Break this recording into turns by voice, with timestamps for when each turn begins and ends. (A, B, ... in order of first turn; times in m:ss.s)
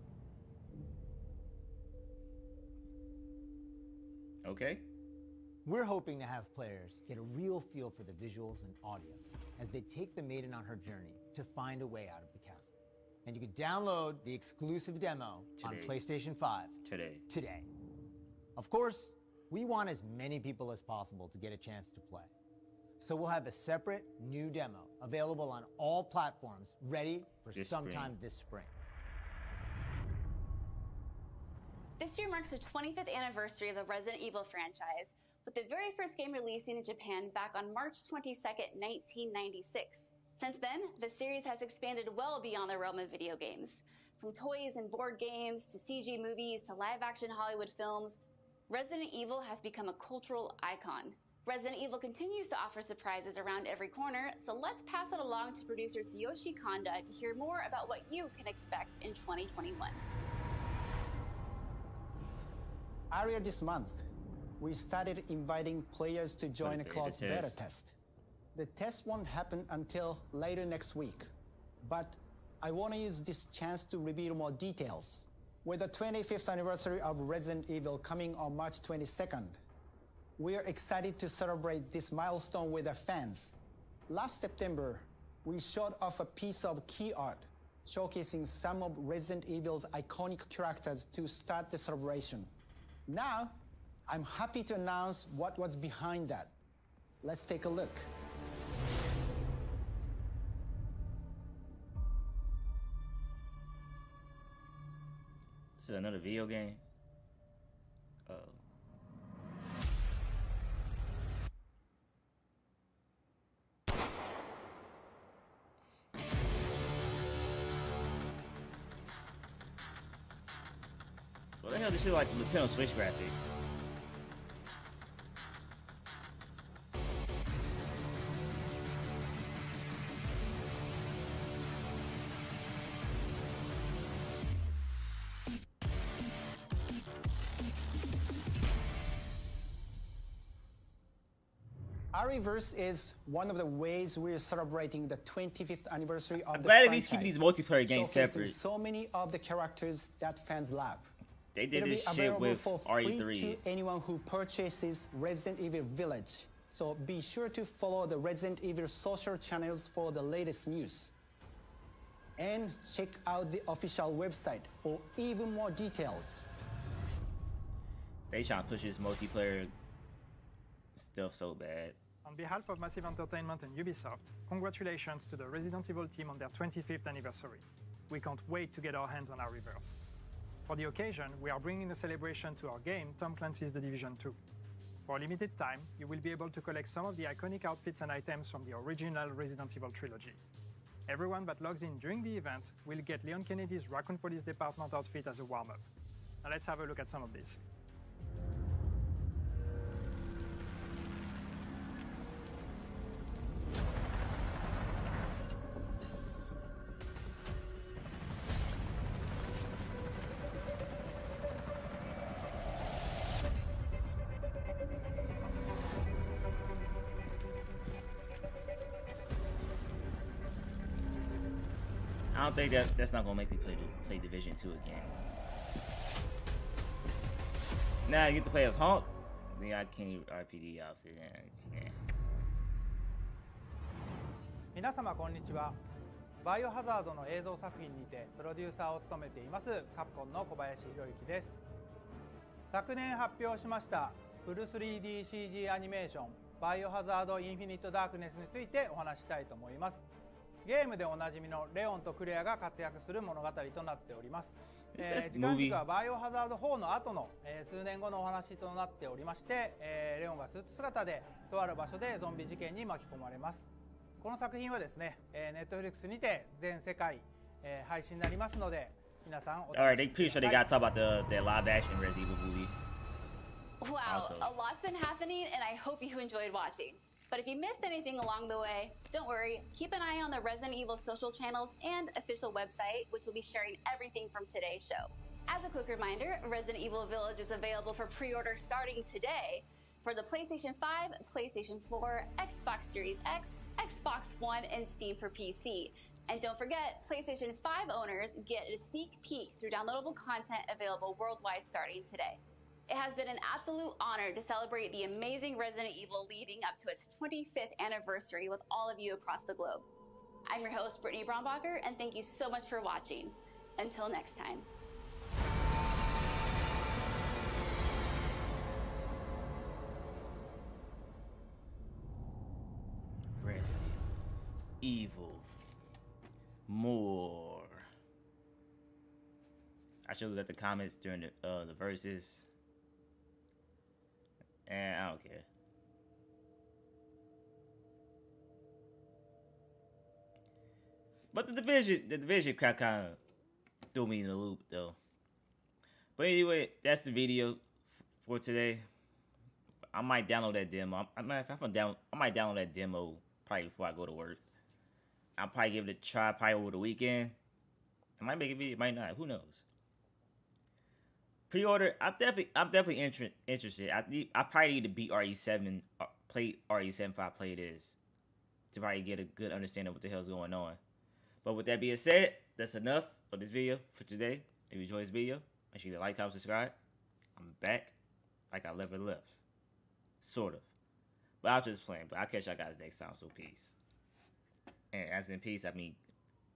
0:04.4-0:04.8 A
0:05.6-0:12.7 B
0:13.2-0:16.8 B
0:15.6-0:16.0 A
0:16.8-0:17.2 A
0:17.3-0:17.7 B
0:18.6-0:22.3 B
0:23.0-0:28.7 B
0:27.5-0:28.2 A
0:32.0-0:48.2 C
0:48.7-1:00.0 C
1:03.1-1:04.0 D
1:04.6-1:08.0 D
1:06.6-1:07.6 A
1:08.6-1:11.3 D
1:11.8-1:19.6 D
1:20.4-1:23.6 D
1:24.1-1:32.5 D
1:33.1-1:33.6 D
1:34.1-1:36.6 D
1:37.2-1:38.1 D
1:45.8-1:46.8 A
1:48.3-1:48.6 A
2:01.6-2:03.5 A
2:22.1-2:31.1 D
2:26.4-2:28.6 A
2:31.5-2:33.6 A
2:31.7-2:41.1 D
2:42.4-2:46.5 D
2:48.3-2:49.7 A
2:51.0-2:52.0 A
2:52.2-3:00.1 E
3:00.7-3:04.4 E
3:05.0-3:10.4 E
3:11.1-3:15.8 E
3:16.4-3:17.6 E
3:42.3-3:45.2 A
3:48.1-3:52.0 A
3:54.8-3:55.8 F
3:56.4-4:01.6 F
4:02.7-4:10.0 F
4:10.6-4:23.6 F
4:14.9-4:15.8 A
4:24.2-4:30.7 F
4:29.7-4:32.8 A
4:33.8-5:09.9 C
4:34.0-4:34.5 A
5:10.5-5:14.7 C
5:23.4-5:24.0 A
5:24.8-5:25.5 A
5:26.7-5:27.9 A
5:30.0-5:32.5 A
5:34.7-5:35.5 A
5:41.3-5:43.2 A
5:43.9-5:45.0 A
5:46.2-5:47.6 A
5:48.2-5:48.9 A
5:49.9-5:54.4 A
5:55.4-5:57.4 A
5:58.2-5:59.6 A
6:01.5-6:08.0 A
6:08.7-6:10.8 A
6:11.4-6:16.7 A
6:17.4-6:18.0 A
6:18.5-6:19.3 A
6:20.2-6:20.7 A
6:21.4-6:23.7 A
6:24.9-6:26.0 A